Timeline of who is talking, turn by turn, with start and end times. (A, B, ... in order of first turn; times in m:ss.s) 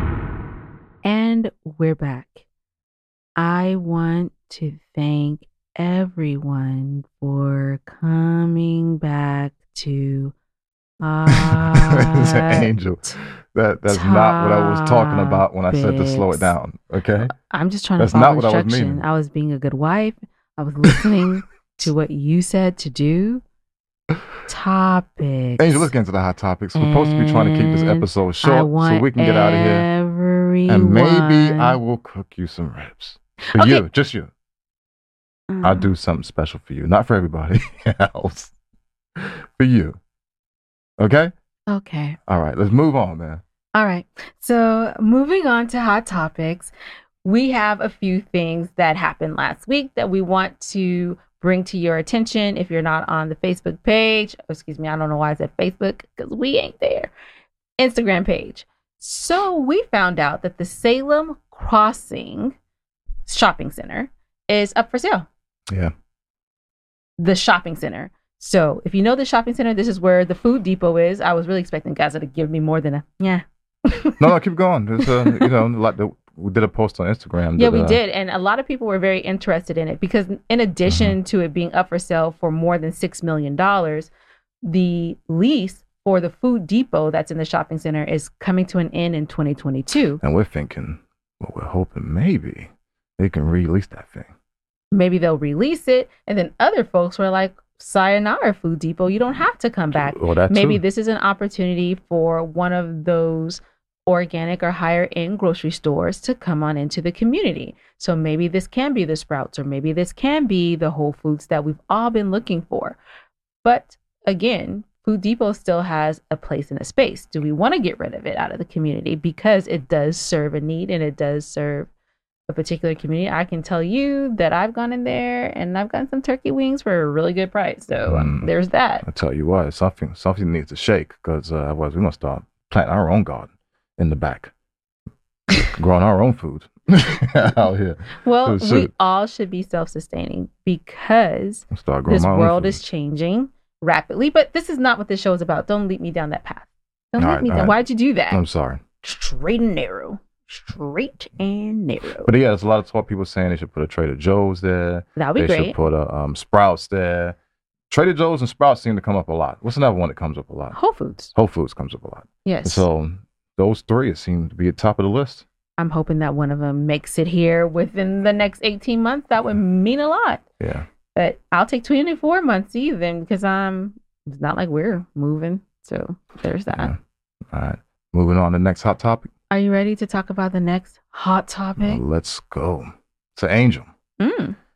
0:01.0-0:02.4 A
0:03.4-0:10.4 A
0:11.0-0:12.7 A
0:11.6-0:17.3 B
0:13.9-0:16.5 A
0:17.4-0:23.4 A
0:18.0-0:19.0 B
0:24.5-0:25.9 A
0:25.6-0:29.9 B
0:26.8-0:31.8 A
0:30.7-0:34.3 B
0:33.5-0:33.8 A
0:35.5-0:35.9 A
0:35.6-0:38.5 B
0:39.2-0:40.0 B
0:41.0-0:41.3 B
0:41.7-0:42.2 A
0:42.3-0:43.4 B
0:43.8-0:46.7 A
0:47.2-0:57.1 A
0:57.8-1:02.6 A
1:03.3-1:05.3 A
1:07.2-1:14.2 A
1:14.2-1:18.0 B
1:15.0-1:15.6 A
1:17.6-1:24.1 A
1:20.9-1:21.2 B
1:24.6-1:30.2 A
1:30.2-1:34.3 B
1:34.9-1:53.0 A
1:39.9-1:40.8 B
1:53.6-2:01.9 A
2:02.5-2:09.0 A
2:08.1-2:08.5 B
2:09.0-2:14.5 B
2:15.7-2:18.9 B
2:18.2-2:28.4 A
2:21.7-2:22.8 B
2:27.2-2:28.8 B
2:29.0-2:32.3 A
2:32.2-2:37.4 B
2:35.2-2:35.8 A
2:37.9-2:40.8 B
2:40.7-2:41.3 A
2:41.3-2:45.5 B
2:42.4-2:42.9 A
2:45.8-2:50.4 A
2:50.6-2:50.9 B
2:51.2-2:56.9 A
2:57.5-2:59.3 B
2:59.5-3:02.0 A
3:01.8-3:03.9 B
3:04.2-3:04.6 A